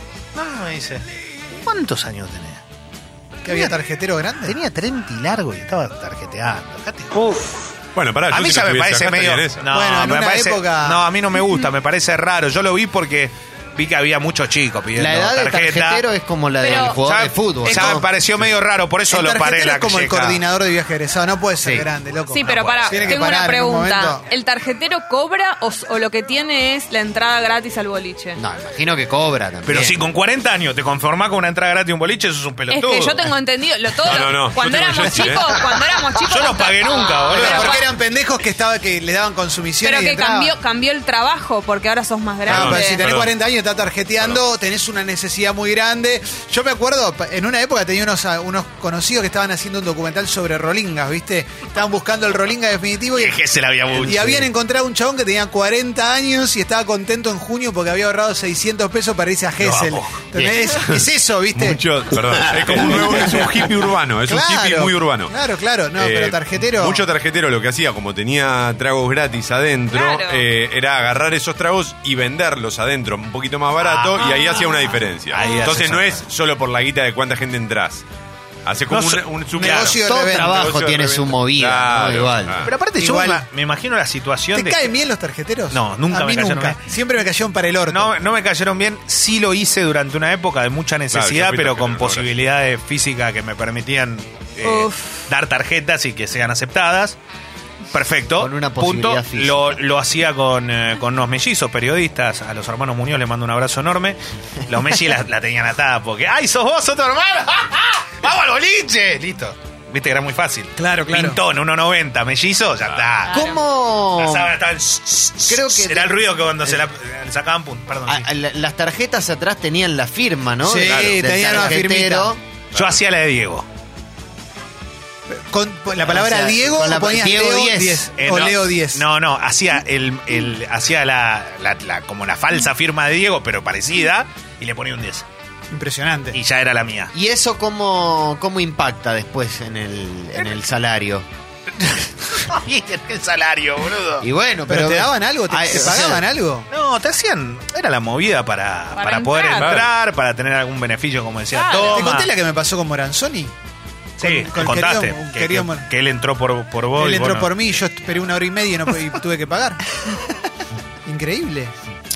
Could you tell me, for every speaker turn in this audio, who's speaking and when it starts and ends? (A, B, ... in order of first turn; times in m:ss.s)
0:00.4-0:02.6 A
0:03.4-0:04.6 B
0:03.5-0:03.8 A
0:04.4-0:07.7 A
0:08.0-0:09.7 C
0:08.3-0:16.0 A
0:09.7-0:11.0 B
0:15.0-0:18.1 D
0:16.6-0:17.0 E
0:17.0-0:20.4 A
0:19.1-0:24.2 B
0:21.6-0:21.9 D
0:22.3-0:28.4 E
0:22.4-0:23.1 A
0:28.4-0:30.0 D
0:29.7-0:33.3 A
0:32.7-0:37.9 E
0:34.0-0:35.7 C
0:36.2-0:37.8 A
0:37.3-0:40.5 B
0:39.8-0:43.0 E
0:42.5-0:43.4 C
0:42.5-0:53.4 B
0:53.2-0:54.5 A
0:53.9-1:01.8 B
0:59.6-1:00.3 A
1:00.8-1:05.3 C
1:03.1-1:03.4 A
1:04.3-1:07.0 B
1:06.0-1:18.0 C
1:09.9-1:10.4 E
1:13.8-1:14.4 A
1:14.2-1:15.7 E
1:15.3-1:16.3 A
1:18.7-1:22.7 C
1:18.9-1:20.0 A
1:19.6-1:20.7 B
1:20.0-1:22.6 D
1:22.6-1:24.9 A
1:23.0-1:23.4 B
1:24.5-1:28.1 B
1:25.7-1:26.8 A
1:27.9-1:37.2 A
1:31.1-1:32.3 C
1:34.6-1:35.2 E
1:37.9-1:53.4 A
1:38.4-1:39.8 D
1:50.8-1:51.4 B
1:53.3-1:53.6 E
1:53.3-1:54.6 D
1:54.2-1:58.3 A
1:55.5-1:56.8 D
1:58.1-2:02.4 D
2:00.6-2:02.3 B
2:02.7-2:03.7 A
2:05.3-2:09.0 B
2:06.0-2:08.1 D
2:08.2-2:15.3 A
2:15.7-2:16.4 B
2:16.3-2:17.1 A
2:17.1-2:21.3 D
2:21.8-2:24.3 A
2:24.2-2:26.2 D
2:24.7-2:26.7 B
2:26.7-2:32.3 A
2:29.0-2:29.7 E
2:29.6-2:29.9 C
2:31.5-2:32.1 E
2:31.9-2:33.5 B
2:34.2-2:37.6 A
2:34.2-2:35.9 B
2:37.0-2:40.0 B
2:41.1-2:41.7 B